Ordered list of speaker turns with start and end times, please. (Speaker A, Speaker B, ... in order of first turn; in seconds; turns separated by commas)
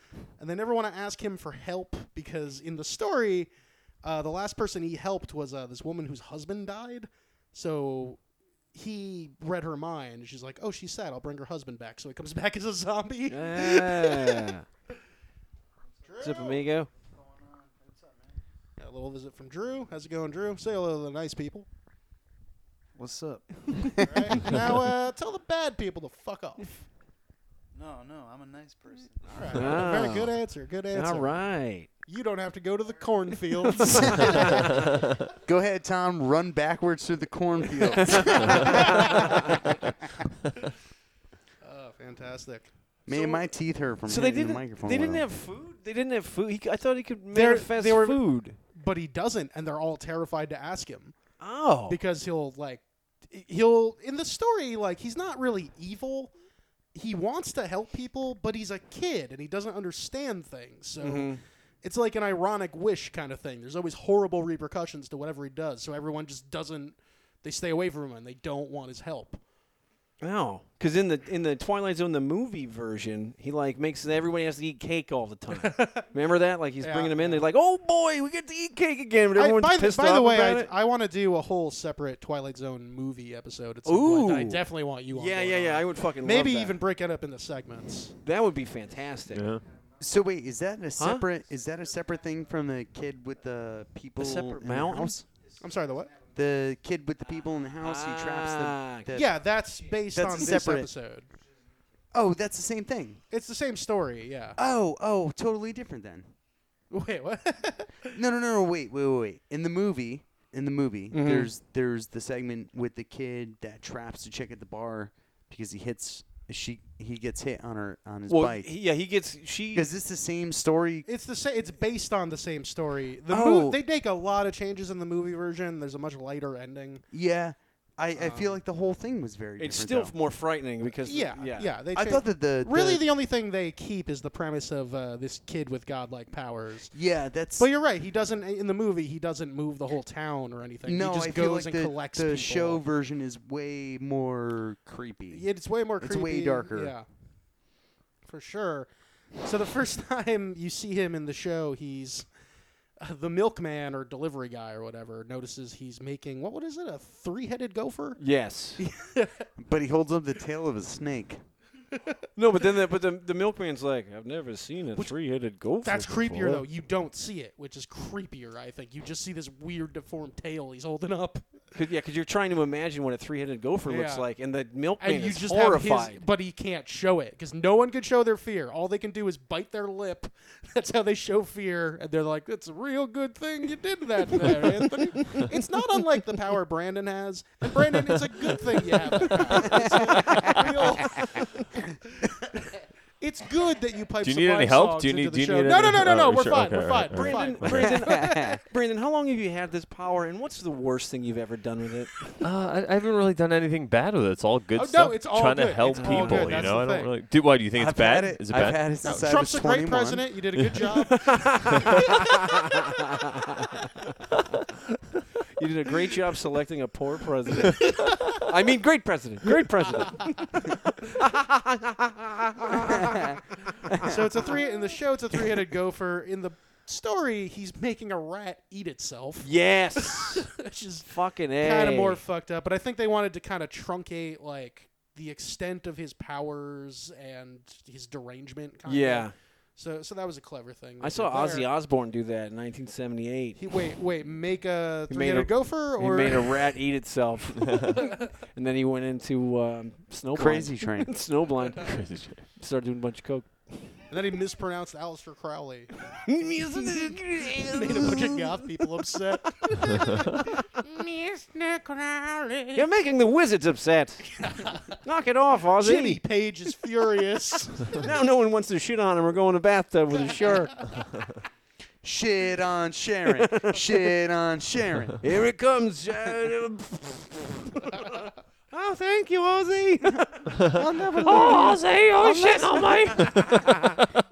Speaker A: 0.4-3.5, Speaker A: 4.0-8.2, Speaker A: 8.7-14.5, Speaker B: 13.3-14.7, Speaker A: 16.1-16.6, Speaker B: 16.2-16.9, Speaker C: 17.0-18.4, Speaker A: 18.8-21.7, Speaker C: 23.0-23.7, Speaker B: 23.7-24.0, Speaker A: 24.0-26.8, Speaker C: 27.8-30.0, Speaker A: 29.3-31.3, Speaker B: 29.6-30.4, Speaker B: 30.9-31.9, Speaker A: 32.1-35.0, Speaker B: 33.7-34.5, Speaker D: 35.4-39.4, Speaker A: 38.3-39.5, Speaker A: 41.6-43.4, Speaker D: 43.1-45.2, Speaker B: 44.1-48.6, Speaker A: 47.3-48.2, Speaker A: 48.7-51.1, Speaker B: 51.4-52.0, Speaker A: 51.9-56.3, Speaker A: 56.9-61.3, Speaker B: 61.0-61.4, Speaker A: 61.8-69.4, Speaker B: 70.2-80.7, Speaker A: 75.6-76.1, Speaker A: 76.8-77.5, Speaker A: 79.4-88.2, Speaker B: 83.9-86.8, Speaker B: 88.2-89.5, Speaker E: 89.3-89.6, Speaker D: 90.0-95.2, Speaker B: 91.0-91.3, Speaker B: 94.2-95.2, Speaker A: 95.6-96.2, Speaker D: 96.3-99.4, Speaker B: 97.8-99.1, Speaker A: 99.1-101.3, Speaker D: 100.0-100.9, Speaker D: 102.1-103.2, Speaker A: 103.3-104.6, Speaker D: 104.6-106.3, Speaker A: 106.9-108.1, Speaker D: 108.1-118.7, Speaker B: 111.1-111.5, Speaker B: 118.3-119.9, Speaker D: 119.7-121.1, Speaker A: 121.1-127.0, Speaker D: 123.3-123.8, Speaker D: 127.1-130.1, Speaker A: 128.2-128.6, Speaker B: 129.6-131.8, Speaker A: 131.1-136.9, Speaker D: 131.9-133.1, Speaker D: 136.9-137.7, Speaker A: 137.6-142.8, Speaker D: 140.9-145.5, Speaker A: 145.3-147.1, Speaker D: 146.0-146.9, Speaker A: 148.3-152.3, Speaker A: 153.0-158.2, Speaker B: 158.2-158.8, Speaker A: 158.8-159.5, Speaker D: 159.6-161.4, Speaker B: 162.4-166.7, Speaker A: 165.8-171.4, Speaker B: 171.8-176.2, Speaker A: 173.9-174.2, Speaker A: 175.0-191.5, Speaker B: 184.5-185.5, Speaker B: 189.4-190.8, Speaker A: 193.2-198.6, Speaker E: 194.2-198.0, Speaker B: 197.1-202.3, Speaker D: 198.1-198.6, Speaker E: 202.4-209.0, Speaker A: 204.7-207.1, Speaker B: 205.9-206.7, Speaker D: 207.7-210.3, Speaker A: 209.0-211.8, Speaker B: 211.1-213.7, Speaker B: 215.6-223.9, Speaker D: 223.0-223.4, Speaker D: 223.9-224.2, Speaker A: 224.0-241.7, Speaker B: 229.4-230.6, Speaker B: 231.1-232.2, Speaker B: 238.9-239.3, Speaker B: 241.0-243.6, Speaker A: 243.6-246.5, Speaker B: 245.1-251.9, Speaker D: 250.3-251.1, Speaker E: 251.8-252.4, Speaker B: 252.6-253.9, Speaker A: 254.1-255.9, Speaker B: 256.1-258.4, Speaker A: 257.7-262.8, Speaker B: 259.6-259.9, Speaker B: 262.7-266.2, Speaker A: 264.4-264.9, Speaker A: 265.8-268.1, Speaker B: 267.9-270.9, Speaker D: 272.0-275.2, Speaker B: 273.4-273.9, Speaker B: 275.2-280.6, Speaker D: 280.6-282.9, Speaker B: 281.2-284.0